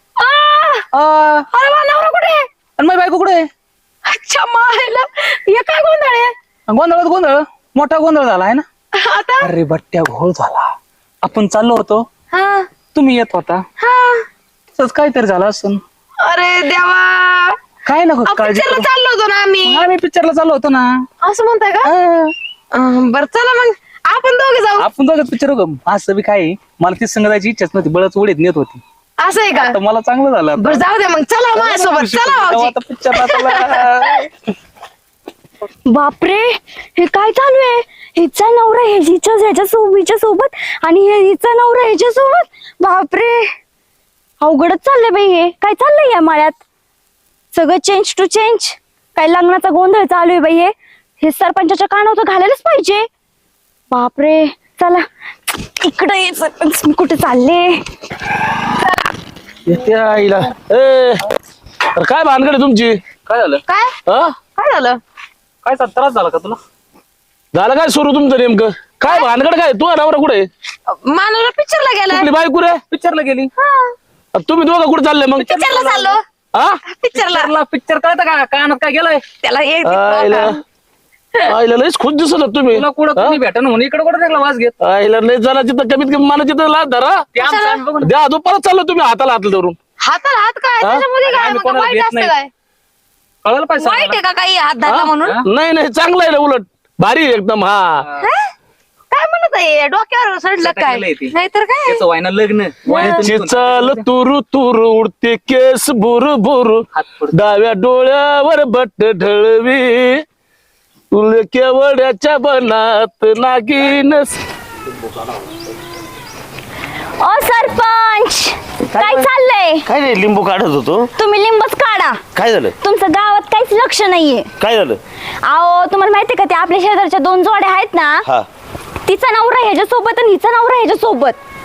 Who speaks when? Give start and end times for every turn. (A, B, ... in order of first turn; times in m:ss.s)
0:00.2-0:00.8 A
0:00.9-0:01.5 B
0:01.5-0:02.4 A
0:02.8-0:03.5 B
0:04.0-0:06.3 A
0:06.7-0:08.6 B
0:08.9-0:09.5 A
0:09.4-0:10.7 B
0:11.2-0:12.0 B
0:12.3-0:12.7 A
0:12.9-0:13.6 B
0:13.8-0:14.2 A
0:14.7-0:15.8 B
0:16.2-0:17.6 A
0:17.8-0:18.9 B
0:18.2-0:19.8 A
0:19.6-0:21.0 B
0:21.2-0:21.9 A
0:21.8-0:22.3 B
0:22.7-0:24.8 A
0:24.8-0:28.8 B
0:29.2-0:29.8 A
0:29.5-0:30.8 B
0:30.6-0:34.0 A
0:31.5-0:34.2 B
0:35.9-0:43.5 C
0:44.4-0:46.6 C
0:47.5-0:53.1 C
0:53.9-0:55.0 C
0:55.8-0:57.8 C
0:59.7-1:01.2 D
1:02.0-1:03.0 D
1:03.2-1:03.6 B
1:03.7-1:03.9 A
1:04.6-1:05.0 A
1:05.6-1:06.6 B
1:07.5-1:10.5 D
1:10.9-1:12.3 A
1:12.3-1:12.8 D
1:12.8-1:13.5 B
1:13.6-1:13.9 A
1:14.4-1:15.5 D
1:15.4-1:16.2 A
1:15.5-1:16.1 B
1:16.8-1:17.5 A
1:17.1-1:19.2 B
1:19.4-1:20.6 A
1:19.9-1:20.5 D
1:21.5-1:23.3 D
1:22.7-1:24.7 B
1:24.8-1:27.2 D
1:27.3-1:28.1 B
1:27.4-1:27.8 A
1:28.1-1:29.7 D
1:30.0-1:32.5 A
1:31.2-1:32.3 B
1:33.4-1:34.2 B
1:33.8-1:35.4 A
1:34.9-1:35.4 B
1:35.5-1:37.9 D
1:39.1-1:42.0 A
1:40.6-1:44.0 B
1:42.8-1:43.3 A
1:43.2-1:46.8 D
1:46.9-1:47.3 B
1:47.3-1:50.2 D
1:51.1-1:54.4 D
1:57.2-1:59.8 C
1:58.9-1:59.3 E
1:59.8-2:01.1 E
2:01.2-2:02.2 C
2:02.3-2:02.7 E
2:02.8-2:04.5 C
2:04.6-2:05.0 E
2:05.4-2:08.2 C
2:09.0-2:11.4 C